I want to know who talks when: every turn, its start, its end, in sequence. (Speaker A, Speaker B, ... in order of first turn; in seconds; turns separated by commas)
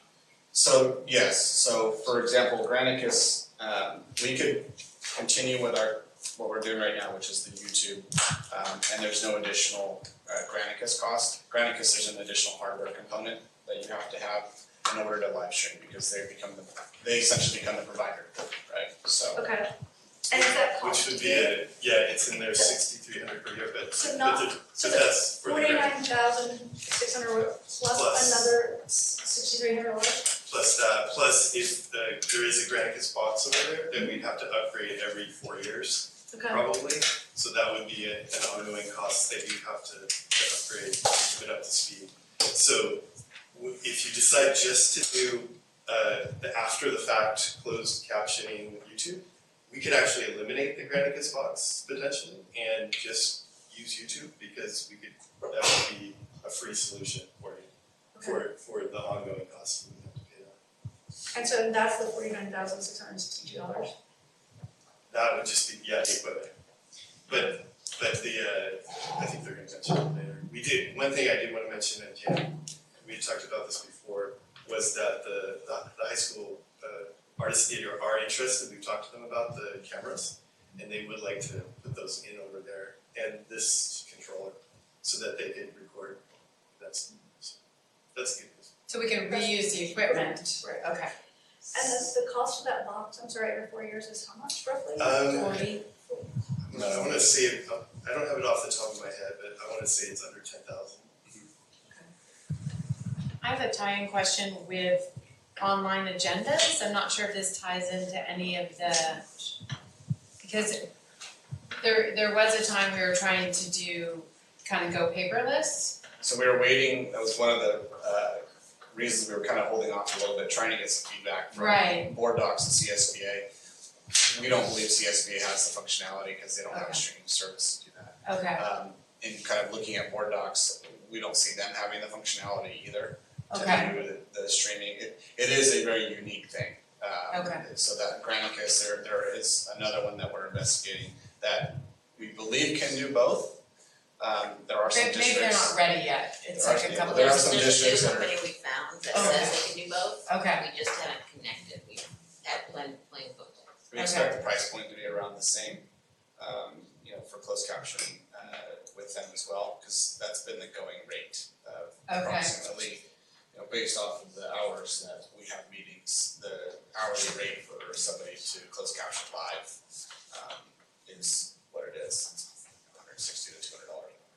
Speaker A: 0.5-19.5, Speaker B: 19.4-19.7, Speaker B: 20.3-21.6, Speaker C: 20.3-26.0, Speaker B: 23.9-30.3, Speaker C: 27.9-28.6, Speaker C: 30.5-60.5, Speaker B: 36.3-36.6, Speaker B: 58.1-58.4, Speaker B: 61.3-63.9, Speaker C: 65.1-66.5, Speaker C: 67.3-86.2, Speaker C: 86.8-87.6, Speaker C: 88.1-88.7, Speaker D: 88.9-91.1, Speaker B: 89.3-90.8, Speaker B: 91.7-97.0, Speaker C: 95.0-95.8, Speaker D: 95.3-95.8, Speaker C: 96.7-101.1, Speaker A: 96.7-97.1, Speaker D: 103.4-109.3, Speaker D: 110.4-110.9, Speaker D: 111.8-116.0, Speaker A: 116.2-123.5, Speaker D: 121.5-122.1, Speaker A: 124.2-143.6, Speaker D: 126.7-127.0, Speaker D: 128.2-128.6, Speaker D: 133.5-133.9, Speaker D: 137.3-137.7, Speaker A: 144.2-145.9, Speaker D: 144.9-147.5, Speaker A: 146.5-148.4, Speaker E: 147.3-153.7, Speaker D: 149.1-149.7, Speaker A: 149.2-149.4, Speaker D: 150.3-150.7, Speaker A: 153.9-155.9, Speaker D: 153.9-154.4, Speaker A: 156.4-169.8, Speaker D: 162.1-162.6, Speaker A: 170.3-174.2